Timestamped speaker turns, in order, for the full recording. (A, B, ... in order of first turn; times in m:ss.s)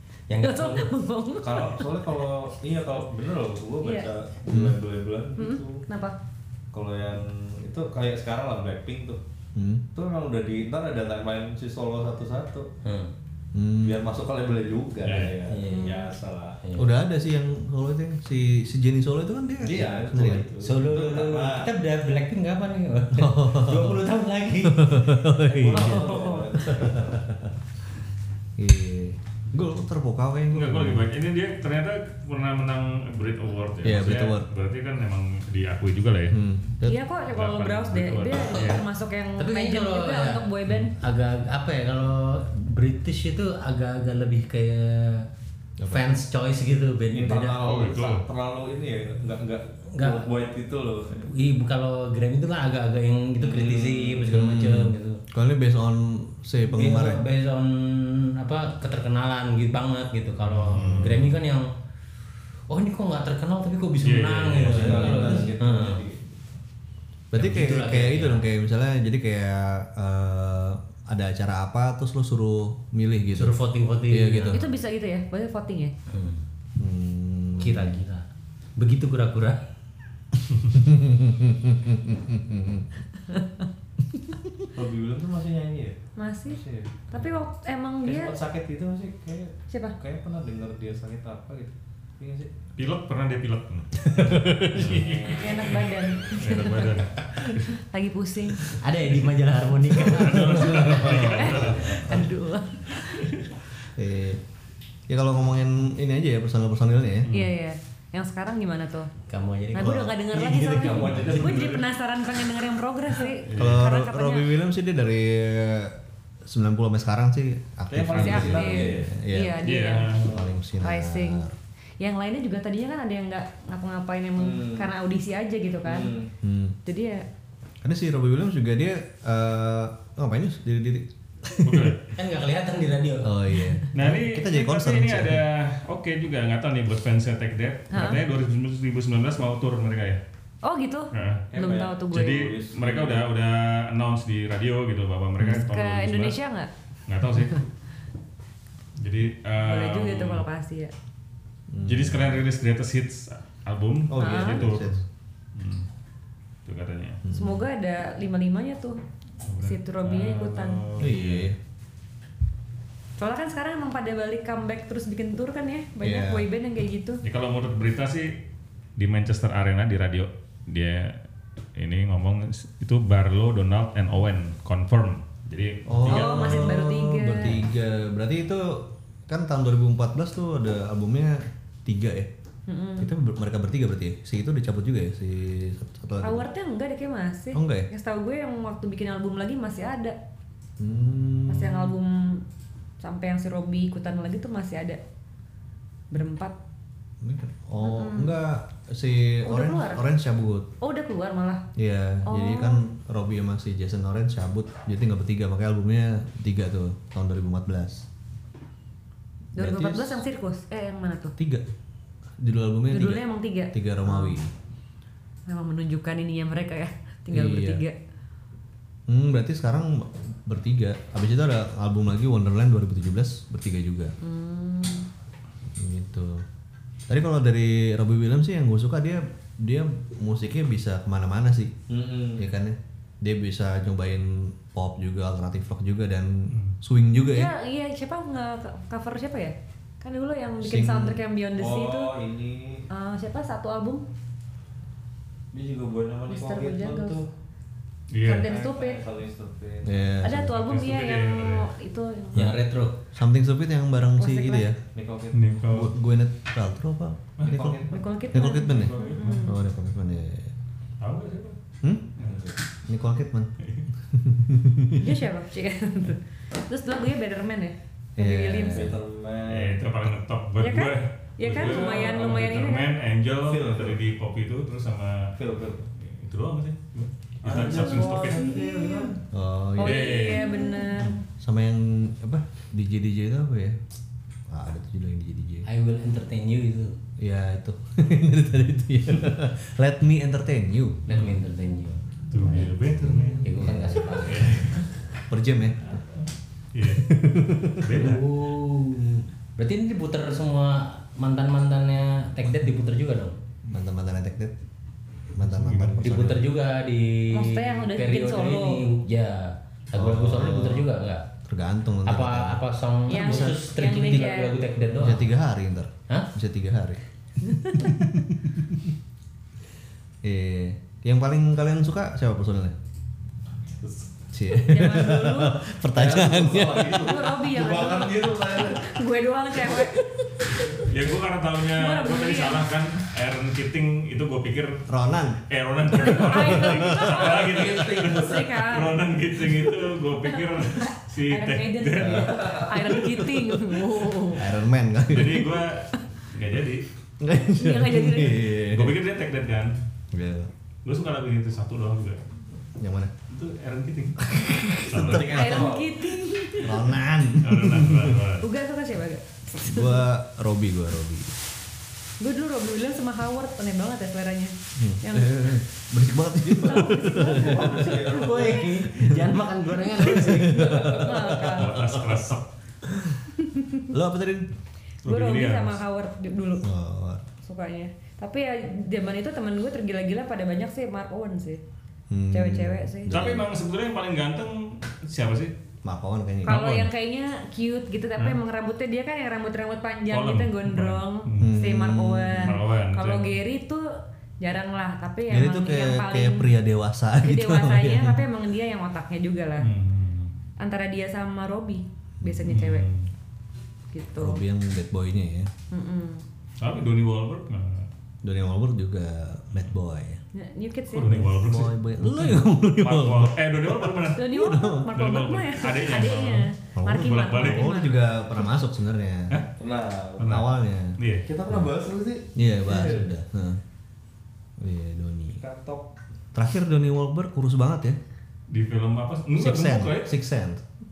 0:00.3-0:00.9 A
0:00.4-0:01.8 B
0:01.4-0:05.8 C
0:03.8-0:04.1 B
0:04.5-0:04.8 D
0:05.4-0:06.2 B
0:06.7-0:09.2 C
0:09.6-0:09.8 D
0:09.9-0:12.7 C
0:12.8-0:13.1 A
0:13.5-0:14.0 D
0:13.8-0:16.6 C
0:15.0-0:15.4 E
0:15.5-0:16.1 A
0:15.7-0:16.1 B
0:16.6-0:16.9 A
0:16.8-0:20.5 D
0:19.6-0:21.7 C
0:20.6-0:25.2 A
0:23.2-0:24.0 D
0:24.6-0:26.2 D
0:25.4-0:27.4 C
0:25.8-0:26.4 B
0:26.8-0:27.2 D
0:28.6-0:31.1 D
0:30.5-0:36.4 E
0:33.8-0:34.5 D
0:36.3-0:37.0 D
0:36.8-0:40.9 B
0:37.3-0:38.8 E
0:39.4-0:45.3 A
0:45.8-0:46.0 D
0:45.9-0:47.6 A
0:47.1-0:51.3 C
0:47.6-0:48.2 E
0:49.9-0:50.3 A
0:51.2-0:55.2 A
0:53.4-0:54.3 C
0:54.3-0:57.2 D
0:56.7-1:01.7 A
1:00.5-1:01.3 E
1:00.9-1:01.3 D
1:02.7-1:06.0 A
1:04.0-1:05.4 E
1:04.6-1:06.4 C
1:04.9-1:05.5 D
1:07.3-1:13.6 D
1:07.3-1:08.4 A
1:13.4-1:14.7 A
1:14.1-1:14.6 D
1:14.5-1:15.9 B
1:16.1-1:16.4 A
1:16.8-1:18.0 D
1:17.6-1:18.3 A
1:18.8-1:19.6 A
1:20.7-1:22.9 D
1:23.3-1:23.7 B
1:24.8-1:27.0 C
1:26.2-1:28.4 B
1:28.0-1:32.5 C
1:29.7-1:30.0 B
1:32.8-1:34.0 E
1:34.0-1:35.2 D
1:34.6-1:37.7 E
1:34.8-1:35.4 C
1:35.3-1:38.7 B
1:38.8-1:41.0 A
1:40.0-1:42.2 E
1:40.5-1:42.0 D
1:41.0-1:43.3 B
1:43.2-1:43.5 E
1:44.0-1:44.4 D
1:45.1-1:47.3 D
1:47.3-1:47.5 E
1:47.3-1:49.1 B
1:49.3-1:51.3 A
1:49.7-1:54.5 B
1:50.7-1:51.8 C
1:51.1-1:51.6 E
1:53.4-1:53.8 E
1:53.6-1:59.6 D
1:57.9-1:58.7 E
1:58.1-1:59.2 C
1:58.1-2:00.2 B
1:59.6-2:00.3 E
2:00.2-2:01.6 D
2:00.2-2:00.5 C
2:00.8-2:01.5 B
2:02.0-2:06.2 B
2:04.4-2:04.9 C
2:05.8-2:06.3 C
2:06.4-2:06.8 D
2:06.8-2:07.3 B
2:07.8-2:12.0 D
2:11.6-2:12.1 E
2:12.1-2:13.3 A
2:13.2-2:15.4 D
2:13.9-2:20.2 E
2:17.9-2:18.2 B
2:20.6-2:22.5 B
2:21.1-2:21.4 E
2:21.5-2:23.2 C
2:22.1-2:26.4 E
2:25.4-2:26.7 B
2:27.1-2:27.7 E
2:29.0-2:30.4 E
2:29.6-2:30.9 B
2:31.7-2:32.4 D
2:31.8-2:35.0 E
2:34.1-2:35.0 D
2:34.2-2:34.7 B
2:35.6-2:35.9 E
2:36.6-2:37.2 E
2:37.2-2:37.6 D
2:37.3-2:39.0 B
2:39.4-2:41.5 E
2:39.6-2:40.8 B
2:41.0-2:41.6 D
2:43.2-2:47.2 B
2:46.0-2:46.5 D
2:47.2-2:48.3 E
2:49.0-2:51.2 E
2:51.8-2:56.7 E
2:55.9-3:02.3 D
2:56.0-2:57.6 B
3:02.7-3:03.1 B
3:03.0-3:06.5 D
3:06.2-3:10.2 B
3:07.5-3:07.9 D
3:10.8-3:12.0 D
3:11.5-3:12.4 B
3:13.0-3:15.0 B
3:16.1-3:16.6 B
3:17.2-3:20.7 D
3:17.8-3:18.4 B
3:19.5-3:20.1 B
3:20.8-3:21.6 B
3:21.8-3:28.1 D
3:22.3-3:22.8 B
3:29.6-3:30.2 D
3:29.6-3:31.4 B
3:31.4-3:31.6 D
3:32.4-3:34.5 D
3:32.9-3:34.4 B
3:35.5-3:38.0 B
3:37.3-3:37.8 D
3:39.1-3:44.1 D
3:44.2-3:45.1 B
3:45.8-3:46.4 D
3:47.1-3:51.7 D
3:51.9-3:52.4 C
3:52.4-3:57.5 D
3:56.5-3:56.8 E
3:57.3-4:02.2 B
4:00.6-4:01.2 D
4:01.6-4:02.9 C
4:02.9-4:04.0 B
4:05.5-4:07.3 C
4:06.3-4:07.2 B
4:08.1-4:08.5 E
4:08.2-4:09.0 B
4:08.3-4:10.0 C
4:09.8-4:10.8 D
4:10.2-4:12.6 B
4:10.6-4:11.7 E
4:12.3-4:13.0 A
4:13.1-4:14.8 D
4:14.2-4:14.7 B
4:14.9-4:15.6 C
4:15.3-4:15.9 E
4:15.7-4:17.8 D
4:17.4-4:17.7 E
4:17.4-4:18.0 C
4:17.9-4:19.6 B
4:18.3-4:20.5 D
4:18.6-4:19.4 E
4:21.0-4:21.6 E
4:22.2-4:22.6 C
4:22.9-4:23.5 D
4:24.1-4:25.2 D
4:25.0-4:28.9 B
4:28.2-4:28.9 D
4:28.7-4:29.8 C
4:29.5-4:35.3 E
4:30.6-4:32.9 B
4:31.6-4:32.4 C
4:33.4-4:34.0 C
4:35.4-4:35.9 C
4:36.0-4:38.6 E
4:37.4-4:39.2 C
4:38.0-4:38.6 B
4:39.3-4:40.3 D
4:39.8-4:41.2 B
4:39.8-4:40.8 E
4:41.4-4:43.8 D
4:44.5-4:45.7 D
4:45.7-4:47.0 A
4:47.2-4:51.1 D
4:51.1-4:52.7 A
4:51.1-4:51.4 E
4:52.3-4:54.9 E
4:53.4-4:54.6 A
4:53.5-4:54.7 D
4:55.3-4:55.8 D
4:56.7-4:57.1 E
4:57.0-4:58.1 D
4:57.8-4:58.2 E
4:58.0-5:03.4 A
5:03.7-5:04.6 D
5:05.3-5:06.5 D
5:05.4-5:06.1 E
5:06.0-5:11.3 A
5:07.3-5:08.9 B
5:10.0-5:10.9 D
5:11.4-5:12.6 D
5:12.0-5:15.3 A
5:13.1-5:14.6 B
5:13.1-5:13.6 D
5:15.0-5:17.0 D
5:17.4-5:18.0 B
5:20.2-5:22.8 D
5:24.3-5:27.1 D
5:24.6-5:25.7 B
5:25.9-5:29.0 C
5:26.8-5:30.0 B
5:30.7-5:34.9 E
5:31.7-5:32.7 B
5:34.9-5:35.4 D
5:35.5-5:43.3 E
5:35.9-5:39.0 B
5:36.1-5:37.0 D
5:37.2-5:38.5 C
5:40.2-5:44.4 B
5:42.0-5:42.4 D
5:44.3-5:45.6 D
5:45.1-5:46.9 E
5:47.2-5:49.0 D
5:47.6-5:48.5 B
5:48.7-5:49.8 E
5:50.1-5:50.5 D
5:50.8-5:52.2 E
5:52.8-5:53.1 D
5:53.3-5:54.2 E
5:54.2-5:55.7 D
5:54.9-5:55.6 E
5:55.0-5:56.0 C
5:55.3-5:56.9 B
5:56.6-5:58.2 D
5:57.4-5:58.5 E
5:58.4-6:00.1 B
5:59.6-6:01.4 D
6:02.2-6:05.5 B
6:04.8-6:07.9 D
6:06.5-6:08.5 B
6:06.9-6:08.9 C
6:07.6-6:11.0 A
6:10.0-6:12.1 D
6:10.5-6:11.3 C
6:10.9-6:11.7 B
6:11.3-6:12.5 E
6:12.9-6:13.2 D
6:13.4-6:13.9 B
6:13.9-6:14.5 D
6:15.0-6:15.8 E
6:15.1-6:16.7 B
6:16.6-6:17.2 D
6:17.4-6:21.6 B
6:22.1-6:23.5 D
6:22.3-6:23.1 B
6:23.1-6:25.5 E
6:25.8-6:26.8 D
6:26.4-6:36.5 B
6:26.5-6:26.9 E
6:30.1-6:31.5 E
6:31.4-6:32.5 D
6:32.3-6:33.4 E
6:35.3-6:38.2 D
6:37.2-6:39.7 B
6:39.6-6:40.3 E
6:40.6-6:42.9 B
6:42.2-6:42.6 D
6:42.5-6:43.1 E
6:43.9-6:44.4 B
6:44.2-6:45.5 D
6:45.7-6:46.2 B
6:46.6-6:47.9 E
6:48.2-6:50.2 D
6:50.3-6:51.3 B
6:50.9-6:54.3 E
6:51.3-6:55.0 D
6:54.2-6:58.2 B
6:54.9-6:57.7 E
6:56.8-6:59.4 D
6:59.6-7:00.4 C
7:00.2-7:01.3 E
7:00.2-7:01.0 D
7:01.3-7:03.1 C
7:02.4-7:03.6 D
7:04.6-7:05.4 D
7:05.4-7:05.9 C
7:06.3-7:08.0 D
7:08.5-7:10.1 E
7:09.4-7:10.6 D